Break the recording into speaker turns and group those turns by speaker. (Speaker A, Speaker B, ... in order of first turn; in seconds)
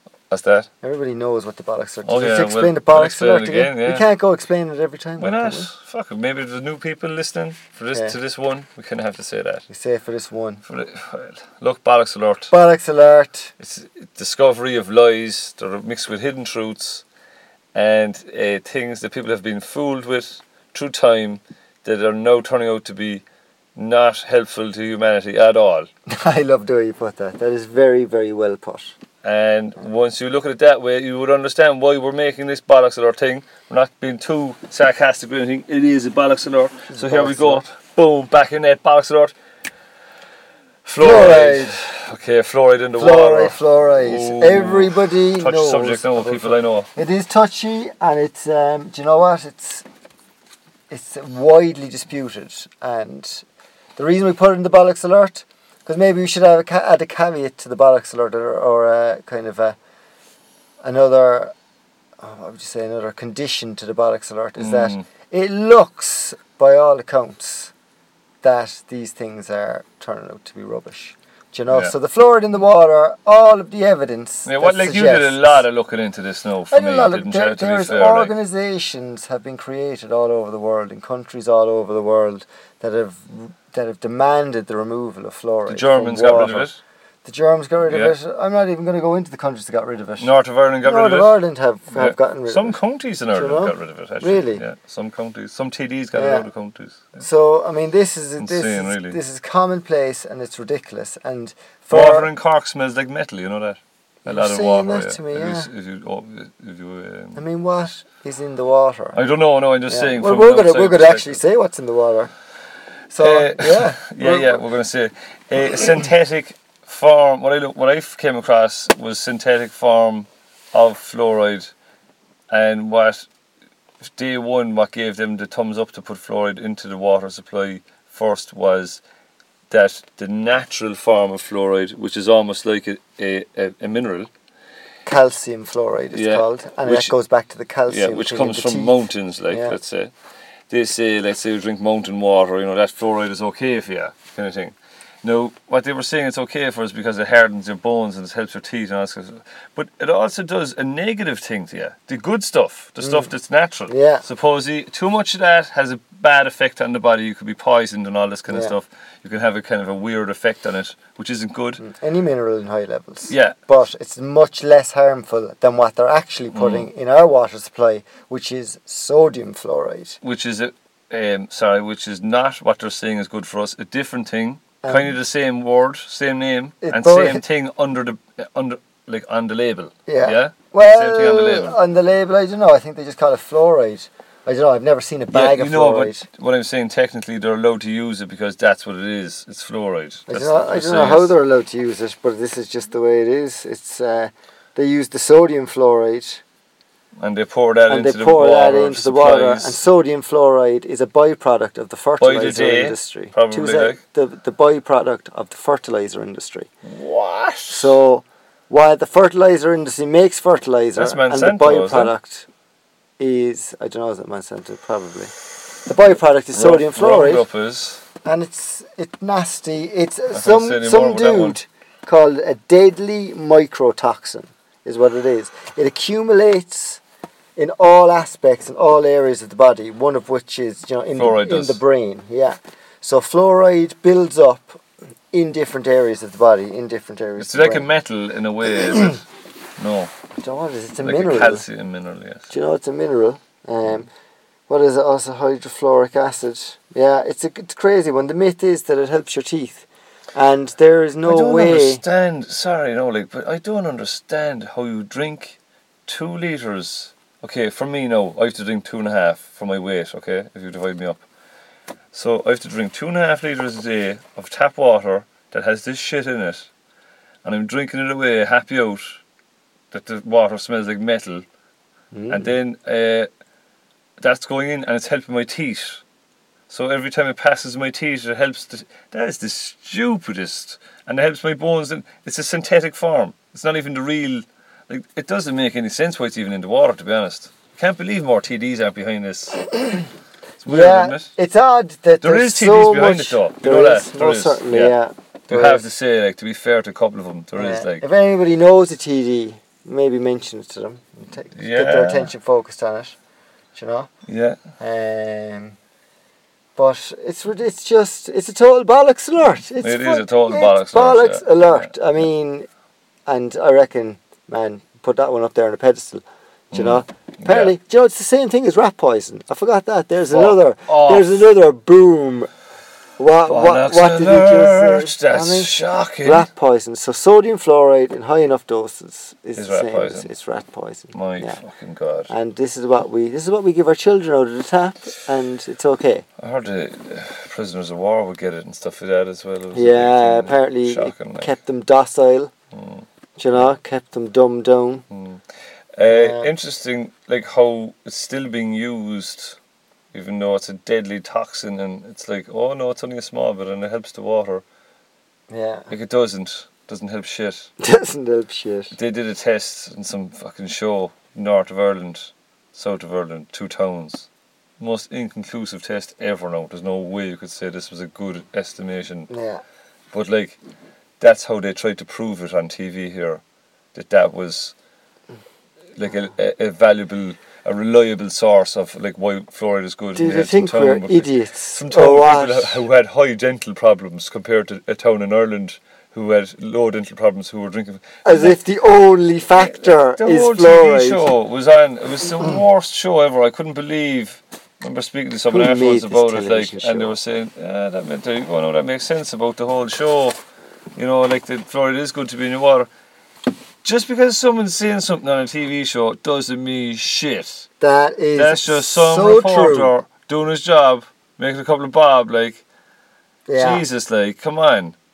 Speaker A: 0.3-0.7, 2.0-4.0, 5.2-9.6, 10.6-12.5, 13.6-17.0, 17.7-23.2, 23.7-25.9, 29.2-39.3, 40.8-46.9, 64.6-65.0, 74.5-78.3, 85.7-86.8, 87.9-88.1, 90.2-91.4, 91.9-97.2, 98.4-99.2, 101.9-107.4, 109.1-111.4, 113.2-121.7, 122.5-123.3, 124.0-129.0, 129.7-134.3, 136.1-137.1, 137.9-140.1, 140.7-161.8, 163.3-163.6, 166.5-166.9, 170.2-181.8, 185.3-191.3, 197.2-199.8, 202.2-204.0, 206.8-208.0, 210.9-212.1, 216.5-218.0, 220.3-221.6, 231.2-231.8, 237.4-239.2, 239.8-240.1, 241.0-242.5, 251.2-261.2, 262.1-266.7, 267.4-269.2, 269.9-271.4, 272.3-273.3, 274.2-276.0, 276.7-289.6, 290.6-291.3, 292.2-294.9, 295.5-298.1, 301.5-302.3, 304.3-304.6, 309.8-311.9, 316.7-317.7, 320.3-321.4, 323.4-326.5, 329.6-330.3, 331.1-332.3, 336.4-341.5, 342.7-343.1, 345.1-349.6, 350.1-354.6, 355.9-357.7, 358.9-364.3, 364.8-369.3, 370.1-370.6, 371.2-373.4, 373.9-374.7, 375.9-388.6, 389.5-400.4, 400.9-402.9, 403.8-407.7, 408.3-412.6, 413.6-414.9
Speaker B: 0.8-5.7, 9.7-10.6, 12.5-13.5, 26.1-28.9, 36.9-37.6, 41.0-41.8, 43.0-49.9, 50.9-53.4, 54.0-59.8, 60.8-61.5, 62.2-67.7, 68.4-75.6, 76.7-86.7, 87.2-90.3, 90.8-92.8, 93.3-94.6, 96.1-96.5, 97.2-102.3, 104.2-105.7, 107.3-109.2, 109.9-112.3, 113.1-114.6, 135.0-139.8, 153.0-153.3, 153.9-154.2, 158.5-158.7, 161.8-170.2, 174.8-175.1, 176.8-177.4, 180.1-186.2, 190.3-196.4, 197.9-206.7, 207.7-212.5, 213.2-215.3, 215.8-217.4, 218.2-227.0, 227.6-237.8, 240.4-241.6, 242.5-244.1, 244.7-252.0, 272.1-272.5, 289.6-290.1, 290.6-295.8, 297.6-303.1, 303.7-304.1, 304.8-305.8, 306.8-312.7, 313.2-322.5, 323.2-331.6, 332.3-336.2, 339.7-342.5, 343.4-345.1, 346.1-346.5, 355.5-355.9, 357.8-358.9, 369.3-369.6, 380.1-382.8, 388.2-391.3, 395.5-397.1, 407.8-409.9, 413.5-413.8